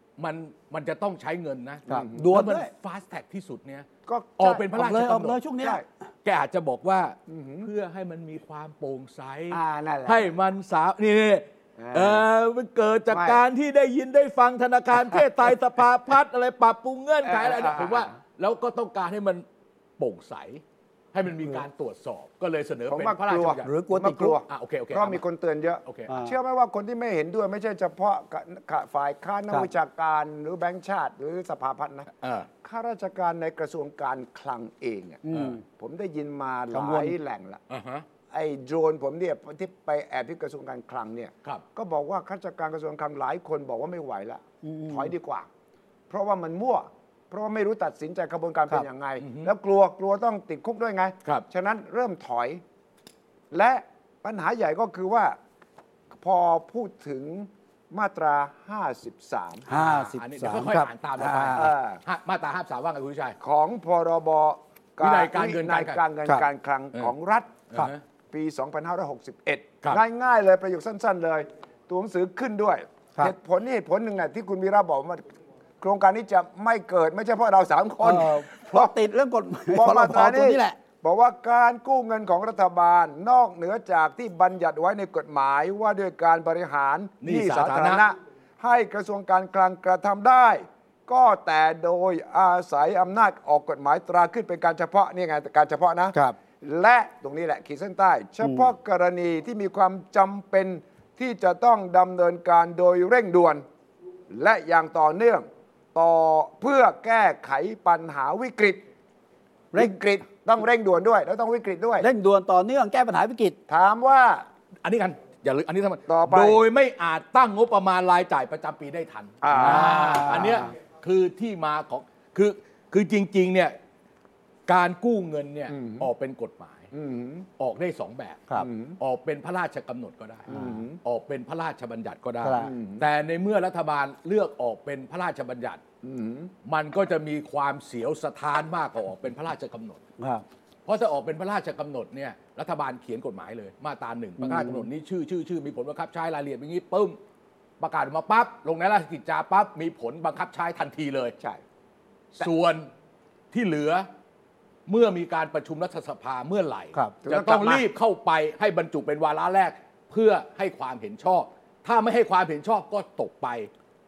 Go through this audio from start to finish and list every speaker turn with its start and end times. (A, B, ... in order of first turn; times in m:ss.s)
0:00.2-0:03.9 A
0:01.9-0:02.3 B
0:01.9-0:02.7 C
0:04.1-0:04.6 B
0:04.4-0:05.4 A
0:04.7-0:05.8 C
0:05.6-0:05.8 B
0:06.2-0:19.4 A
0:07.3-0:07.7 B
0:09.5-0:10.3 B
0:11.8-0:12.2 B
0:13.1-0:13.4 B
0:17.2-0:18.1 B
0:20.0-0:20.6 A
0:21.1-0:23.7 A
0:22.9-0:32.1 B
0:23.6-0:24.4 C
0:24.5-0:25.2 A
0:25.8-0:26.1 A
0:26.1-0:26.3 C
0:32.2-0:32.5 A
0:32.6-0:37.6 B
0:35.2-0:35.6 C
0:36.7-0:37.1 C
0:37.7-0:38.0 A
0:38.3-0:45.5 B
0:44.6-0:45.1 C
0:46.1-0:52.6 B
0:49.2-0:49.5 A
0:53.5-0:55.4 B
0:56.2-0:59.7 B
0:59.7-1:01.7 C
0:59.7-1:03.4 A
1:01.6-1:02.0 B
1:03.4-1:07.6 B
1:05.0-1:06.0 A
1:07.7-1:08.0 A
1:08.3-1:15.2 B
1:15.8-1:18.9 B
1:18.0-1:20.8 C
1:19.7-1:43.6 B
1:27.2-1:28.0 A
1:38.4-1:38.7 C
1:44.3-1:48.8 B
1:49.7-1:52.1 B
1:52.0-1:53.6 C
1:53.7-1:54.4 B
1:54.8-2:03.7 A
1:56.1-1:56.6 B
1:59.4-2:00.5 B
1:59.5-2:00.7 C
2:04.7-2:06.9 A
2:05.7-2:06.1 B
2:06.9-2:07.5 B
2:07.6-2:08.5 A
2:08.6-2:09.0 B
2:09.0-2:10.5 A
2:10.5-2:11.0 B
2:10.5-2:10.8 C
2:11.0-2:15.8 A
2:12.4-2:12.7 C
2:12.6-2:13.0 B
2:16.0-2:16.5 B
2:16.6-2:20.0 A
2:20.2-2:20.4 C
2:20.8-2:27.2 A
2:24.4-2:24.8 C
2:27.8-2:31.3 A
2:32.3-2:32.9 A
2:33.5-2:34.1 A
2:34.9-2:43.7 A
2:37.2-2:37.9 B